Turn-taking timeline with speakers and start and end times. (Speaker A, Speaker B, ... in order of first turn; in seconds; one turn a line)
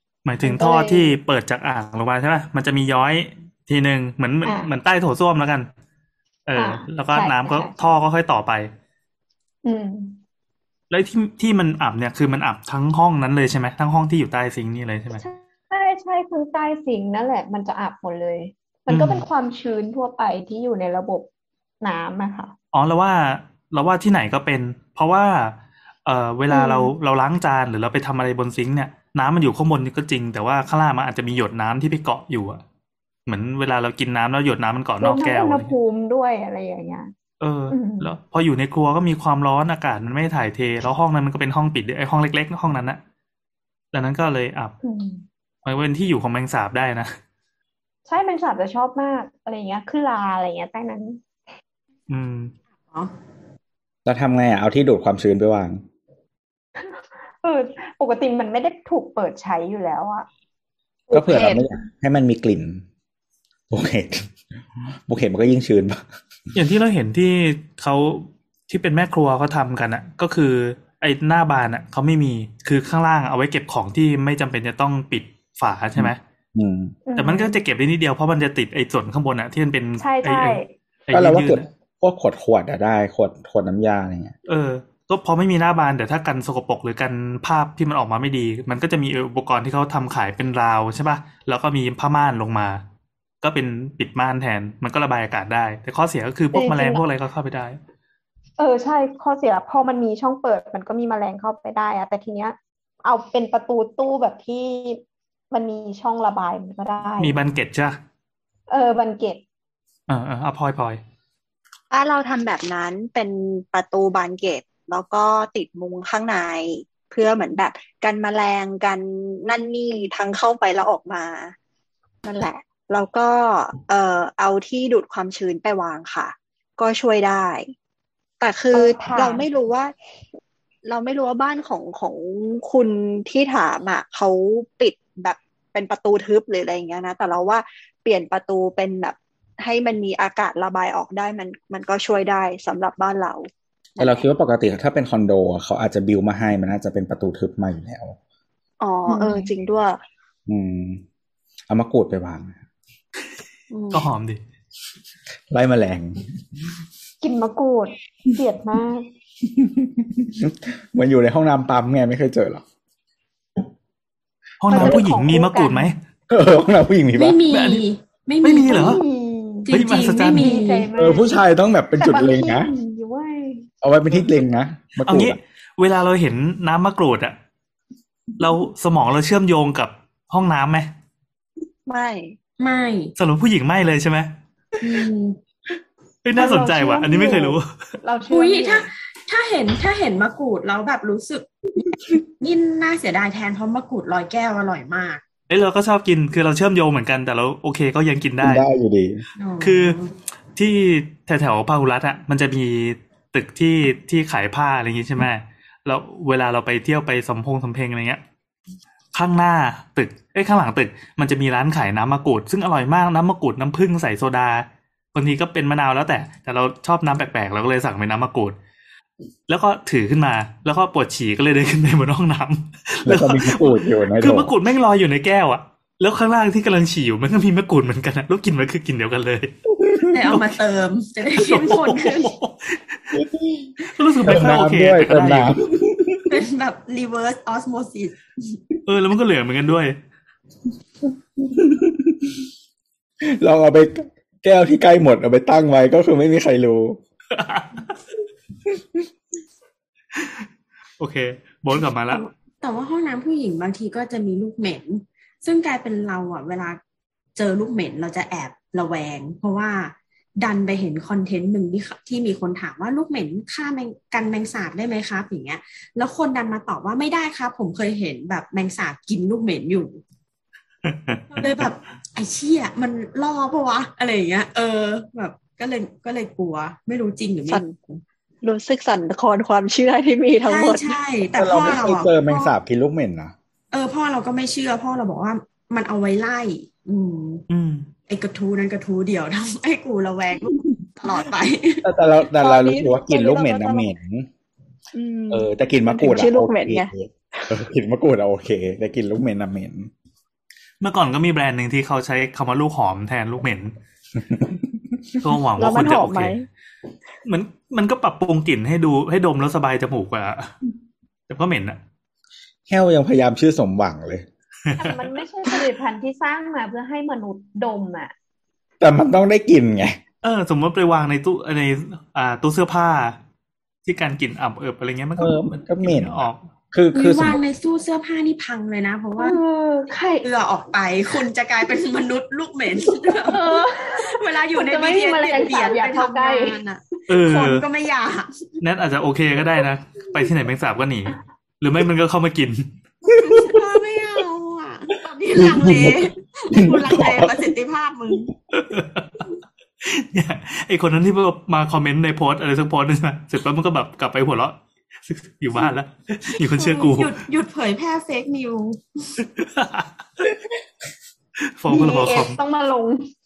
Speaker A: 0.2-5.7
Speaker B: 0.4-1.2
Speaker B: 4.4-4.7
Speaker A: 6.5-8.7
Speaker B: 6.6-7.8
Speaker B: 9.6-10.2
Speaker A: 10.9-15.2
Speaker B: 15.2-21.3
Speaker A: 18.9-19.2
Speaker B: 21.8-22.5
Speaker A: 22.7-32.6
Speaker B: 26.5-26.9
Speaker A: 33.3-35.7
Speaker B: 35.0-37.1
Speaker A: 37.4-43.0
Speaker B: 37.7-38.1
Speaker A: 43.9-44.7
Speaker B: 44.8-45.2
Speaker A: 45.6-47.1
Speaker B: 48.1-51.2
Speaker A: 52.1-52.5
Speaker C: 54.0-55.8
Speaker B: 56.8-60.3
Speaker B: 61.1-61.7
Speaker C: 61.1-62.8
Speaker C: 63.7-64.3
Speaker C: 65.1-66.0
Speaker A: 66.5-76.2
Speaker C: 76.0-76.9
Speaker B: 77.0-77.6
Speaker A: 77.2-81.7
Speaker B: 80.0-80.7
Speaker C: 81.1-84.3
Speaker A: 84.5-92.8
Speaker A: 93.4-97.8
Speaker B: 96.5-97.0
Speaker B: 98.6-107.4
Speaker A: 107.2-108.0
Speaker B: 108.7-109.4
Speaker A: 110.1-111.0
Speaker D: 111.9-121.5
Speaker D: 122.2-127.7
Speaker D: 128.4-129.9
Speaker B: 128.7-129.4
Speaker D: 130.8-144.3
Speaker C: 144.0-148.2
Speaker D: 148.8-150.0
Speaker B: 149.1-149.5
Speaker C: 150.5-151.0
Speaker C: 151.7-152.6
Speaker D: 153.7-154.0
Speaker A: 153.9-154.4
Speaker C: 155.5-156.2
Speaker B: 157.2-159.1
Speaker C: 159.4-162.6
Speaker A: 164.6-166.0
Speaker B: 164.7-165.9
Speaker C: 164.7-165.0
Speaker C: 166.3-167.4
Speaker E: 167.2-169.0
Speaker A: 167.5-167.8
Speaker A: 168.4-169.0
Speaker B: 168.7-169.7
Speaker E: 169.7-170.9
Speaker A: 169.7-170.5
Speaker B: 170.2-171.3
Speaker C: 171.0-172.7
Speaker B: 172.0-173.7
Speaker C: 173.8-175.4
Speaker A: 175.0-177.3
Speaker A: 178.4-180.9
Speaker D: 181.9-182.3
Speaker E: 182.6-183.1
Speaker A: 183.2-184.3
Speaker E: 184.8-185.4
Speaker A: 186.2-187.7
Speaker B: 186.3-188.9
Speaker E: 188.3-191.5
Speaker E: 192.4-195.2
Speaker A: 195.5-198.6
Speaker C: 198.4-199.2
Speaker E: 199.4-200.1
Speaker A: 199.6-200.0
Speaker A: 200.6-208.2
Speaker A: 209.1-218.6
Speaker A: 219.5-229.5
Speaker C: 223.0-224.5
Speaker C: 229.8-230.2
Speaker E: 230.1-232.3
Speaker A: 231.3-233.2
Speaker C: 233.1-236.4
Speaker A: 233.9-235.5
Speaker E: 236.3-238.6
Speaker A: 238.8-240.0
Speaker C: 241.1-242.4
Speaker C: 243.2-247.0
Speaker A: 247.3-247.9
Speaker C: 248.7-249.0
Speaker A: 250.1-250.4
Speaker A: 251.0-252.3
Speaker E: 252.1-256.8
Speaker E: 257.4-270.0
Speaker A: 270.8-271.7
Speaker E: 271.3-278.0
Speaker D: 277.5-277.8
Speaker D: 278.4-281.0
Speaker E: 280.4-282.5
Speaker C: 281.4-283.3
Speaker E: 283.7-287.4
Speaker A: 287.5-287.9
Speaker E: 288.1-291.9
Speaker C: 291.8-294.3
Speaker D: 292.4-293.9
Speaker D: 294.9-297.5
Speaker C: 295.3-299.9
Speaker A: 300.8-303.7
Speaker C: 304.1-305.1
Speaker A: 305.2-306.3
Speaker D: 305.6-306.5
Speaker A: 307.2-310.5
Speaker A: 311.3-311.8
Speaker C: 312.7-314.2
Speaker A: 314.7-314.9
Speaker B: 314.8-318.1
Speaker C: 318.8-320.0
Speaker A: 320.2-323.2
Speaker A: 323.8-326.4
Speaker C: 325.2-327.4
Speaker E: 326.9-329.4
Speaker B: 329.2-330.2
Speaker E: 330.2-338.6
Speaker B: 333.2-336.6
Speaker A: 337.1-337.6
Speaker A: 338.6-342.7
Speaker E: 343.1-348.3
Speaker C: 343.2-343.6
Speaker C: 345.4-347.5
Speaker A: 348.5-349.2
Speaker A: 349.8-357.1
Speaker E: 356.6-359.1
Speaker A: 359.4-359.9
Speaker A: 361.6-362.4
Speaker B: 361.7-363.1